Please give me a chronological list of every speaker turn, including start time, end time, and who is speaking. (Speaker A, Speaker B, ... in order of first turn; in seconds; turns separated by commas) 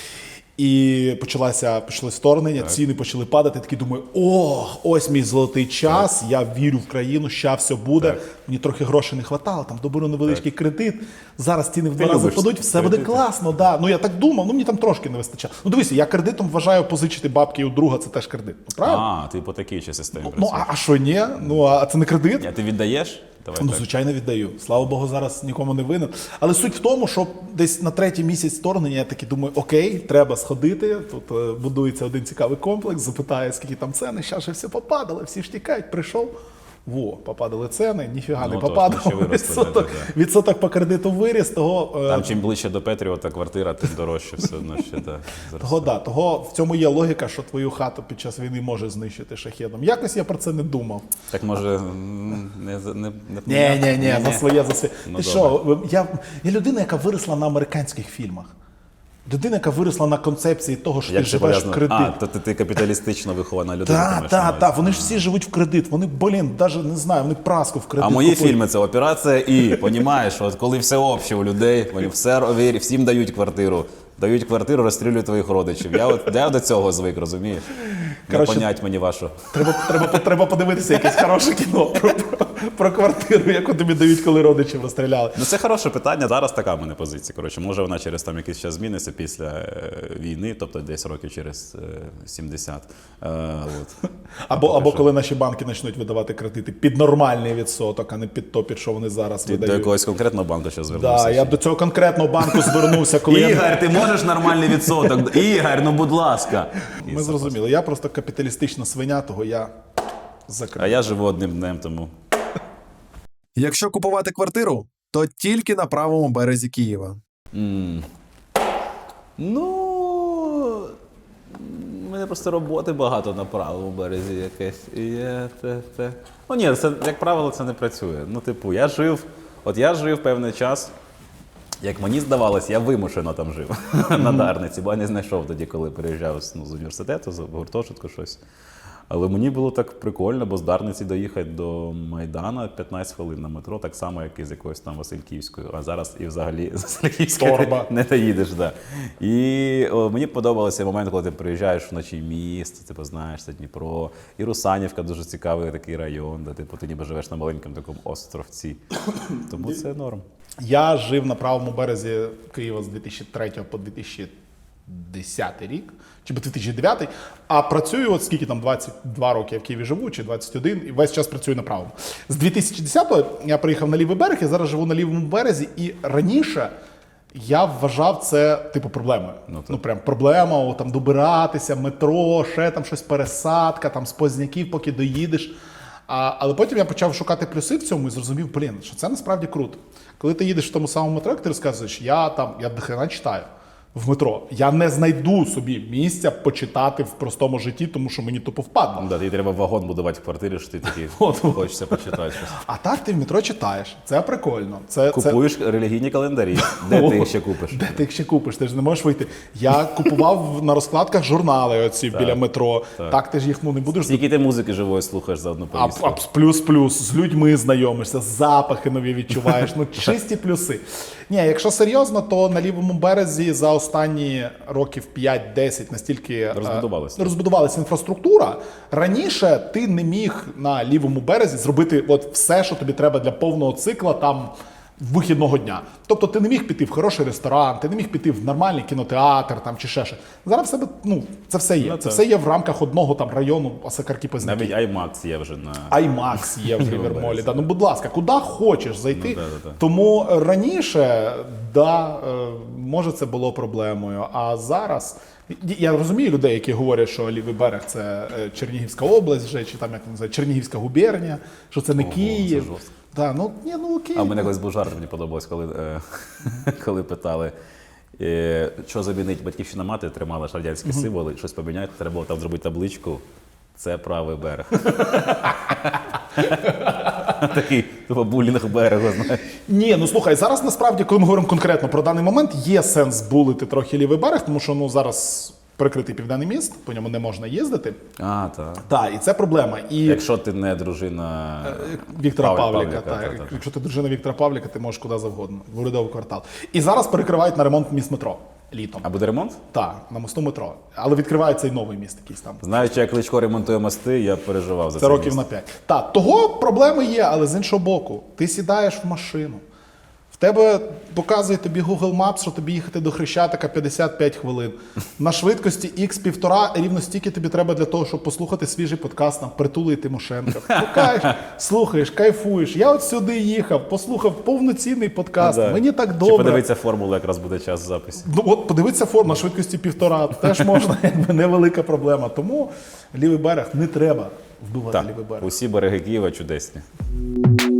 Speaker A: 0.6-19.1, Speaker B: 5.8-6.1, Speaker B: 8.0-8.3, Speaker B: 12.0-13.3, Speaker B: 18.8-20.8, Speaker A: 20.2-22.5, Speaker B: 21.4-21.8, Speaker B: 22.4-23.9, Speaker A: 23.6-36.3, Speaker A: 36.9-42.4, Speaker B: 38.4-40.1, Speaker B: 42.1-45.9, Speaker A: 45.6-51.1, Speaker B: 51.3-55.6, Speaker A: 53.5-58.5, Speaker A: 59.3-62.2, Speaker B: 61.1-65.3, Speaker A: 63.9-68.6, Speaker B: 68.0-80.2, Speaker A: 78.3-78.7, Speaker A: 79.5-85.4, Speaker B: 85.3-93.9, Speaker A: 94.5-99.9, Speaker B: 94.5-95.1, Speaker B: 99.5-101.6, Speaker A: 100.9-105.2, Speaker B: 102.4-107.6, Speaker A: 107.0-109.7, Speaker A: 110.5-111.0, Speaker B: 110.8-112.1, Speaker C: 113.6-117.2, Speaker B: 117.5-118.1, Speaker B: 119.4-120.9, Speaker B: 121.5-130.9, Speaker B: 131.8-138.4, Speaker B: 139.1-158.8, Speaker A: 147.3-147.9, Speaker B: 159.4-160.2, Speaker A: 160.6-164.3, Speaker A: 164.9-176.7, Speaker A: 177.3-185.5, Speaker B: 179.5-179.8, Speaker A: 186.1-199.1, Speaker B: 199.0-202.6, Speaker A: 201.1-205.4, Speaker B: 205.1-208.0, Speaker A: 206.6-214.2, Speaker B: 212.1-212.4, Speaker B: 213.9-216.2, Speaker A: 215.7-244.8, Speaker B: 226.5-227.4, Speaker B: 241.8-242.2, Speaker B: 244.4-247.7, Speaker A: 245.9-264.6, Speaker B: 249.1-249.8, Speaker B: 262.0-262.9, Speaker B: 264.1-267.5, Speaker B: 268.2-273.2, Speaker B: 273.8-279.5, Speaker A: 275.0-275.6, Speaker A: 279.6-288.0, Speaker B: 288.2-288.9, Speaker A: 288.9-290.2, Speaker B: 290.0-293.6, Speaker A: 291.6-299.1, Speaker B: 299.0-299.6, Speaker A: 299.7-303.0, Speaker B: 302.6-305.4, Speaker A: 304.9-309.6, Speaker A: 310.3-326.7, Speaker B: 320.5-321.4, Speaker B: 325.4-328.3, Speaker A: 328.2-335.5, Speaker B: 330.5-330.8, Speaker B: 334.9-336.8